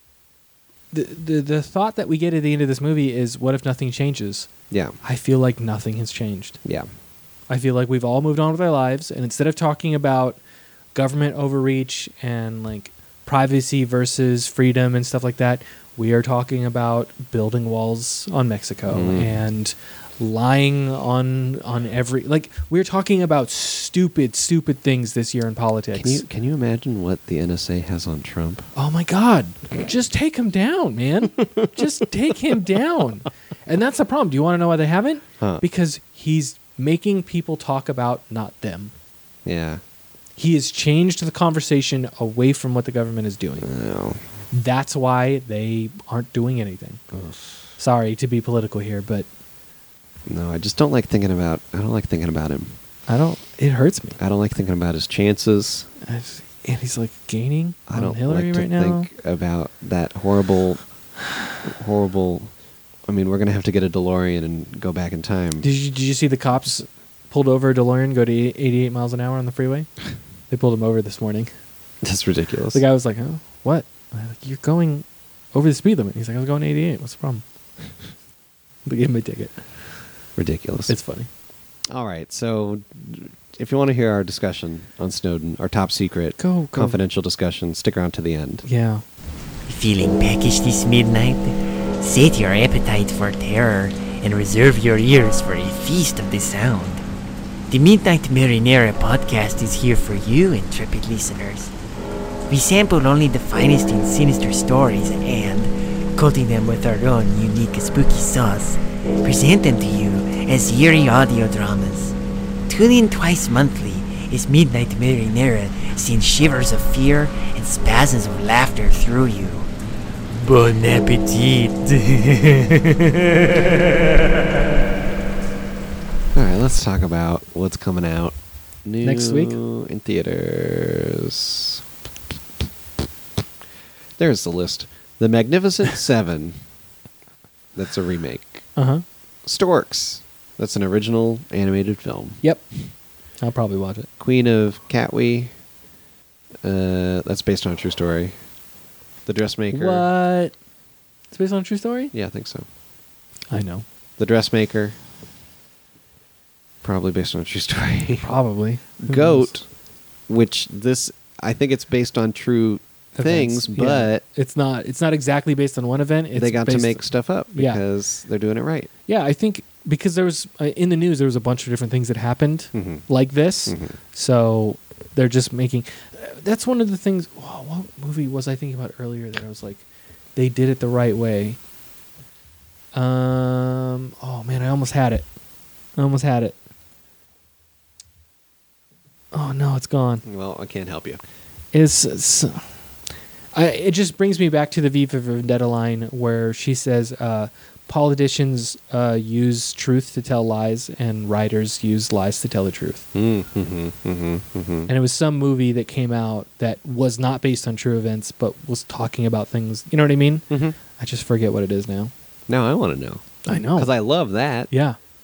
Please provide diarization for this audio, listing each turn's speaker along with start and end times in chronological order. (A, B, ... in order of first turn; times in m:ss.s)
0:00.9-0:04.5 A
0:04.7-0:05.0 B
0:05.0-0:06.6 A
0:06.6-0:06.9 B
0:07.5-0:10.4 A
0:10.9-0:26.2 A
0:18.9-0:19.4 B
0:25.9-0:28.7 B
0:28.7-0:38.9 A
0:31.4-0:31.8 B
0:35.4-0:35.6 B
0:39.4-0:39.8 B
0:40.4-0:43.7 A
0:43.6-0:44.2 B
0:44.5-0:47.0 A
0:47.1-0:47.4 B
0:47.8-0:49.2 A
0:50.3-0:52.8 B
0:53.1-0:54.2 A
0:54.2-0:55.9 B
0:56.0-0:59.1 A
0:57.9-1:00.8 B
1:01.6-1:02.5 B
1:03.0-1:05.6 B
1:05.6-1:09.9 A
1:10.5-1:11.5 A
1:12.0-1:12.8 B
1:12.7-1:17.4 A
1:18.8-1:20.0 A
1:20.4-1:21.0 B
1:20.9-1:21.3 A
1:21.9-1:28.6 B
1:26.4-1:27.0 A
1:28.6-1:29.0 A
1:29.6-1:37.0 C
1:37.7-1:41.7 C
1:42.5-1:52.1 C
1:52.7-1:59.7 C
2:00.3-2:03.8 C
2:06.3-2:11.8 B
2:09.0-2:09.6 A
2:14.2-2:16.6 B
2:17.7-2:18.7 B
2:18.8-2:19.0 A
2:19.4-2:22.4 B
2:23.4-2:24.1 A
2:24.2-2:25.5 B
2:26.6-2:28.4 B
2:29.2-2:30.1 B
2:29.7-2:30.5 A
2:31.3-2:32.1 A
2:32.1-2:32.7 B
2:33.5-2:33.8 A
2:34.2-2:35.0 B
2:36.8-2:38.4 B
2:38.2-2:39.5 A
2:39.0-2:39.7 B
2:40.3-2:44.2 B
2:43.2-2:47.8 A
2:46.3-2:48.9 B
2:49.1-2:59.8 A
2:52.7-2:53.0 B
2:53.7-2:54.0 B
3:00.4-3:01.6 A
3:02.9-3:05.2 A
3:06.0-3:06.6 A
3:09.3-3:10.2 A
3:10.2-3:11.2 B
3:11.7-3:12.6 A
3:13.5-3:23.0 A
3:23.1-3:24.9 B
3:24.9-3:32.1 A
3:30.5-3:30.8 B
3:32.5-3:34.7 B
3:33.4-3:33.9 A
3:34.7-3:35.0 A